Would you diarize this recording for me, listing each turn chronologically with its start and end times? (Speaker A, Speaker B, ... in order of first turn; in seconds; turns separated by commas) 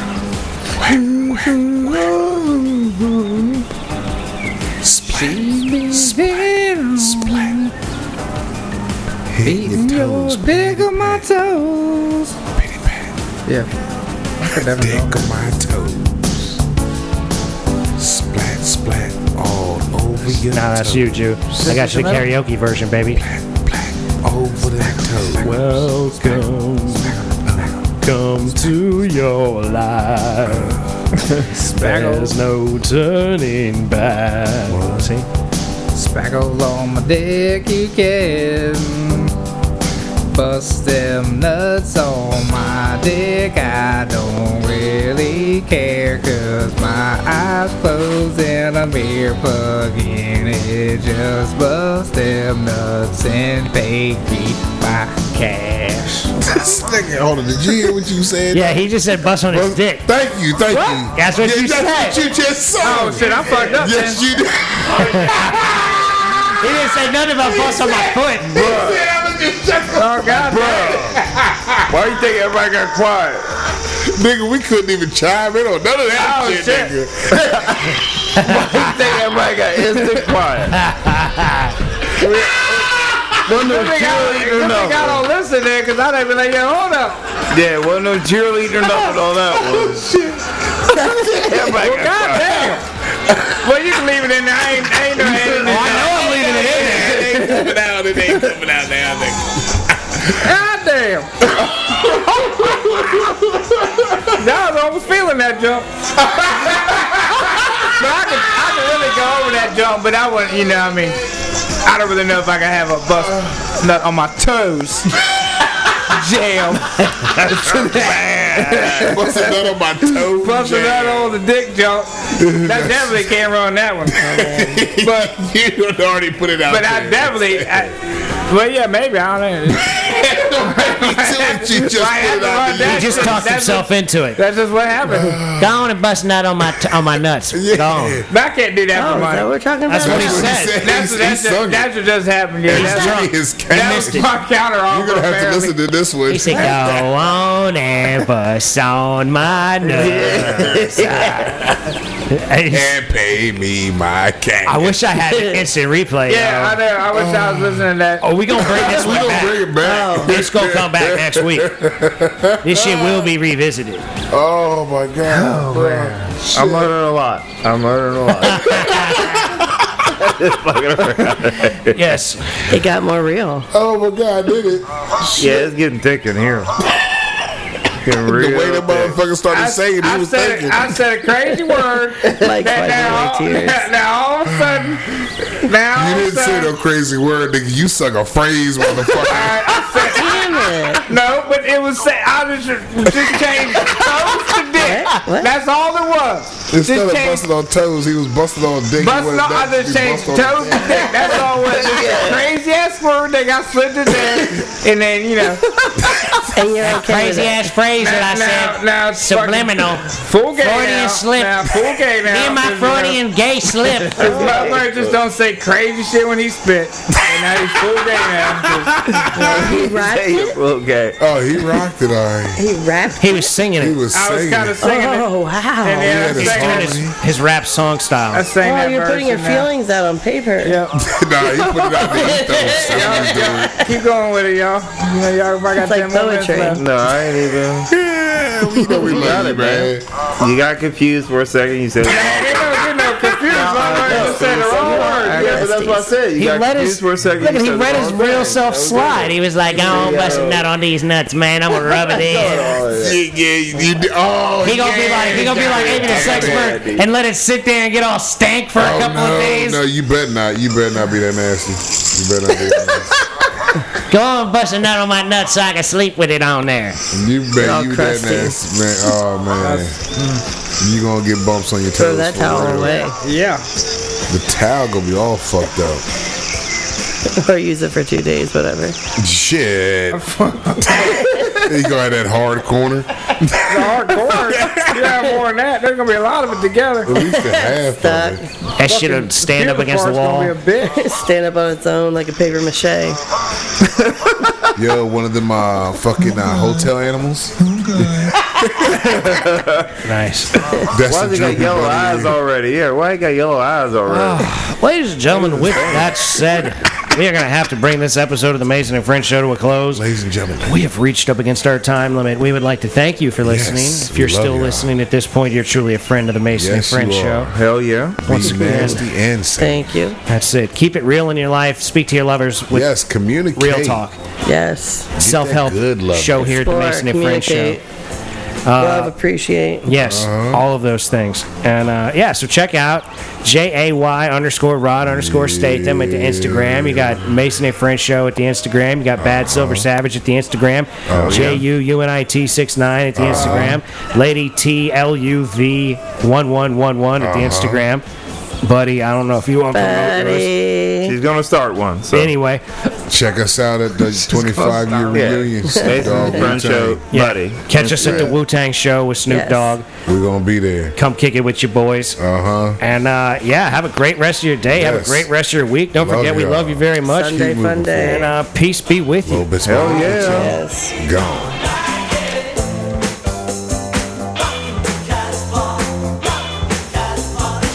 Speaker A: 0.8-2.1, Speaker B: 0.8-3.6, Speaker A: 4.8-7.6, Speaker B: 5.0-7.7, Speaker A: 9.3-11.2, Speaker B: 9.4-12.3, Speaker A: 12.5-13.1, Speaker B: 13.4-13.7, Speaker B: 14.4-15.2, Speaker A: 14.7-16.6, Speaker A: 18.0-21.8, Speaker C: 20.5-23.2, Speaker B: 21.5-22.3, Speaker A: 23.1-27.8, Speaker B: 25.0-25.8, Speaker C: 25.4-27.2, Speaker C: 28.0-30.8, Speaker A: 28.4-28.8, Speaker A: 30.4-31.0, Speaker B: 31.4-32.4, Speaker C: 31.7-35.2, Speaker A: 34.7-35.1, Speaker B: 35.9-39.3, Speaker B: 40.3-56.5, Speaker A: 56.4-66.6, Speaker C: 58.5-60.0, Speaker C: 60.7-62.2, Speaker B: 62.8-64.3, Speaker C: 65.0-65.7, Speaker C: 66.5-68.8, Speaker A: 67.4-71.9, Speaker D: 68.5-69.0, Speaker B: 69.9-71.2, Speaker D: 71.9-73.5, Speaker A: 73.8-77.9, Speaker B: 76.1-76.9, Speaker D: 77.3-80.8, Speaker C: 78.3-78.6, Speaker C: 80.7-81.7, Speaker A: 82.2-83.3, Speaker D: 83.4-85.2, Speaker B: 83.5-87.2, Speaker D: 87.5-90.1, Speaker A: 89.5-91.5, Speaker E: 90.9-91.7, Speaker D: 91.3-92.5, Speaker B: 91.7-92.8, Speaker A: 92.1-93.6, Speaker B: 93.6-96.5, Speaker A: 95.1-100.4, Speaker C: 95.6-97.3, Speaker D: 97.2-97.6, Speaker B: 100.3-101.3, Speaker A: 101.5-104.4, Speaker B: 104.3-105.9, Speaker A: 106.2-107.9, Speaker B: 107.4-111.2, Speaker B: 111.8-115.3, Speaker A: 113.2-113.6, Speaker B: 115.8-124.2, Speaker A: 117.7-118.0, Speaker D: 117.9-119.1, Speaker A: 118.6-121.4, Speaker A: 122.3-123.3, Speaker A: 124.0-127.9, Speaker E: 124.2-125.0, Speaker B: 126.7-135.4, Speaker A: 129.8-133.4, Speaker C: 132.8-134.4, Speaker A: 135.1-135.8, Speaker C: 135.5-138.2, Speaker A: 136.6-138.3, Speaker B: 138.3-139.5, Speaker E: 138.9-140.6, Speaker C: 139.9-140.8, Speaker A: 140.0-141.9, Speaker B: 140.7-145.8, Speaker A: 142.7-144.3, Speaker C: 142.7-144.3, Speaker A: 144.9-147.0, Speaker C: 146.3-151.5, Speaker B: 146.5-147.1, Speaker B: 149.9-150.4, Speaker D: 149.9-151.6, Speaker C: 152.3-152.9, Speaker A: 152.7-155.0, Speaker C: 154.7-156.8, Speaker E: 155.3-155.6, Speaker B: 156.3-158.7, Speaker A: 157.1-157.9, Speaker C: 158.2-159.6, Speaker A: 158.5-162.8, Speaker E: 159.8-160.4, Speaker C: 160.2-161.7, Speaker C: 162.6-164.1, Speaker B: 162.8-163.3, Speaker A: 164.3-166.9, Speaker D: 165.3-169.0, Speaker B: 165.7-166.1, Speaker C: 168.5-169.4, Speaker A: 168.7-169.4, Speaker D: 170.2-172.0, Speaker C: 171.9-172.7, Speaker E: 172.7-173.7, Speaker A: 173.7-175.5, Speaker D: 175.4-176.7, Speaker D: 178.0-179.2, Speaker A: 178.1-181.0, Speaker B: 179.5-186.7, Speaker E: 182.3-183.9, Speaker A: 184.5-185.0, Speaker A: 185.9-190.0, Speaker B: 189.0-197.4, Speaker E: 190.0-191.1, Speaker E: 194.7-195.5, Speaker A: 196.7-201.5, Speaker B: 199.0-206.4, Speaker D: 201.5-202.4, Speaker E: 206.5-207.7, Speaker C: 206.8-214.3, Speaker B: 208.0-213.2, Speaker D: 214.1-215.2, Speaker B: 214.1-219.2, Speaker E: 214.2-214.8, Speaker A: 217.3-217.6, Speaker A: 218.4-219.9, Speaker E: 219.3-220.5, Speaker D: 219.3-221.2, Speaker A: 221.2-222.6, Speaker E: 222.6-223.5, Speaker C: 223.2-224.0, Speaker A: 223.8-224.9, Speaker B: 224.1-227.0, Speaker E: 224.8-226.3, Speaker A: 226.0-227.1, Speaker C: 226.2-228.5, Speaker B: 228.3-229.7, Speaker E: 228.6-230.8, Speaker B: 230.6-231.0, Speaker A: 230.9-233.9, Speaker B: 231.6-236.8, Speaker E: 231.9-233.9, Speaker E: 235.8-236.8, Speaker D: 236.7-237.9, Speaker A: 237.9-240.0, Speaker E: 238.8-239.1, Speaker D: 239.1-250.6, Speaker B: 242.0-245.7, Speaker E: 244.0-246.1, Speaker C: 246.4-252.8, Speaker D: 251.7-253.2, Speaker A: 252.9-256.8, Speaker C: 254.6-259.8, Speaker D: 255.3-257.1, Speaker A: 258.7-263.2, Speaker C: 264.0-267.0, Speaker A: 267.1-270.0, Speaker E: 267.6-268.6, Speaker B: 269.6-270.4, Speaker A: 270.8-273.0, Speaker E: 272.0-273.2, Speaker B: 273.2-273.6, Speaker A: 274.3-276.0, Speaker E: 277.4-279.0, Speaker A: 279.1-285.0, Speaker B: 280.1-281.4, Speaker E: 280.9-281.6, Speaker B: 283.6-287.2, Speaker A: 287.0-288.4, Speaker E: 287.2-288.4, Speaker C: 288.8-290.6, Speaker B: 288.8-291.0, Speaker E: 290.8-293.2, Speaker D: 293.9-294.7, Speaker A: 294.7-298.4, Speaker D: 298.6-299.9, Speaker C: 300.0-300.5, Speaker A: 300.9-302.4, Speaker D: 301.1-304.5, Speaker C: 304.1-310.0, Speaker D: 305.3-306.3, Speaker A: 309.9-310.8, Speaker C: 310.6-317.5, Speaker A: 313.4-314.9, Speaker A: 316.5-317.5, Speaker D: 317.5-319.0, Speaker A: 318.2-319.9, Speaker C: 318.3-319.0, Speaker E: 319.6-320.2, Speaker C: 320.3-322.9, Speaker A: 322.7-324.0, Speaker C: 323.5-324.2, Speaker E: 324.4-325.1, Speaker A: 325.2-326.6, Speaker C: 325.2-327.8, Speaker E: 326.4-327.8, Speaker C: 328.6-329.1, Speaker E: 328.8-329.9, Speaker C: 329.8-348.0, Speaker A: 330.0-330.6, Speaker A: 335.0-337.4, Speaker A: 339.2-339.9, Speaker A: 341.1-341.6, Speaker D: 341.1-341.6, Speaker A: 343.1-343.8, Speaker A: 347.2-347.9, Speaker C: 348.6-350.5, Speaker E: 349.7-351.1, Speaker D: 351.0-352.3, Speaker C: 352.1-352.6, Speaker A: 353.1-357.0, Speaker B: 354.2-355.3, Speaker D: 355.1-358.4, Speaker E: 355.6-356.5, Speaker C: 357.1-359.8, Speaker A: 358.0-358.3, Speaker E: 359.3-359.7, Speaker A: 360.1-360.9, Speaker C: 360.9-362.2, Speaker A: 362.2-362.8, Speaker C: 362.8-369.5, Speaker A: 364.7-365.3, Speaker A: 365.9-368.3, Speaker E: 367.0-368.3, Speaker A: 369.2-371.6, Speaker D: 369.6-370.5, Speaker E: 369.9-370.9